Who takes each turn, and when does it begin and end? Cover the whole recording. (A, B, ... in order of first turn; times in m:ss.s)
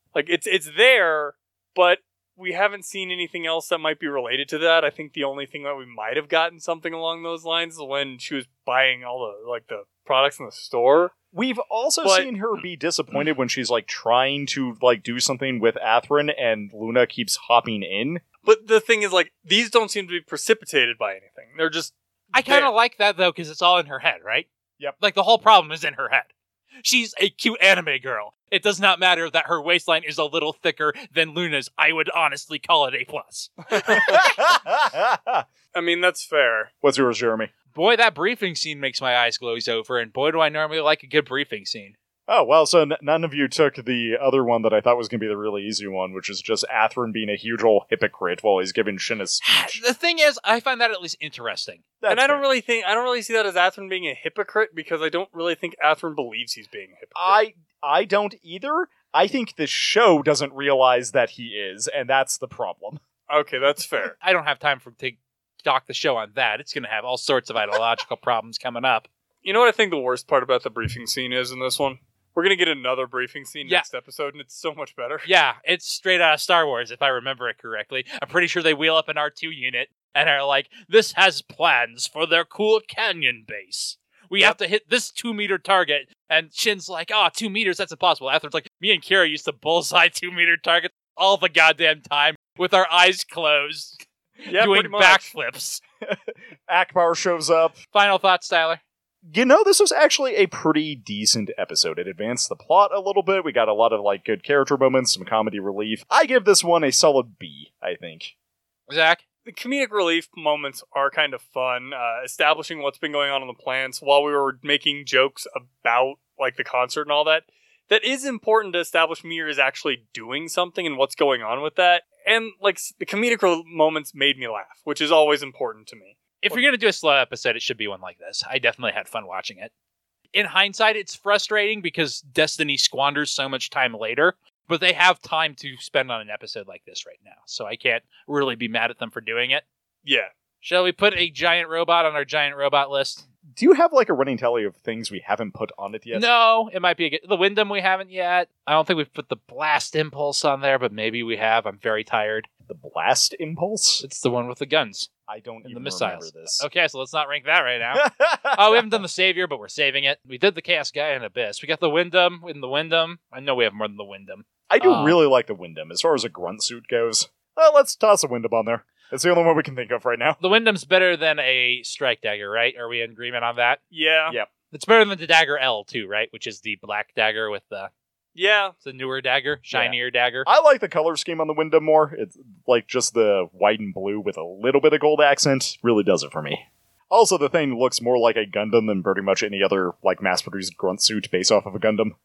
0:00.1-0:11.1 A
0:11.3-0:18.2 B
0:12.0-0:12.3 A
0:18.4-0:22.7 A
0:22.3-0:24.5 C
0:25.0-0:26.3 C
0:26.8-0:34.2 C
0:33.8-0:34.1 A
0:33.9-0:35.4 B
0:35.7-0:36.7 A
0:36.8-0:37.5 B
0:37.7-0:41.9 C
0:42.3-0:49.8 B
0:49.4-0:51.8 C
0:52.0-0:52.4 B
0:52.1-0:57.4 A
0:57.1-1:03.0 B
1:03.3-1:04.2 A
1:04.2-1:09.1 C
1:09.4-1:15.3 A
1:15.2-1:35.8 C
1:34.4-1:35.3 A
1:36.0-1:37.8 B
1:37.9-1:38.8 C
1:39.2-1:48.3 B
1:48.9-1:49.2 C
1:49.4-2:06.6 A
2:06.4-2:09.7 C
2:10.3-2:19.6 C
2:20.0-2:20.3 A
2:20.6-2:23.2 C
2:23.5-2:26.3 B
2:26.1-2:32.5 C
2:32.7-2:34.0 B
2:34.0-2:35.1 C
2:35.3-2:36.6 B
2:35.6-2:45.2 C
2:37.9-2:39.0 B
2:44.7-2:50.4 B
2:50.4-2:53.8 C
2:53.9-2:54.4 A
2:54.7-2:57.9 C
2:58.3-2:58.8 A
2:58.8-3:00.5 C
2:59.7-3:12.2 B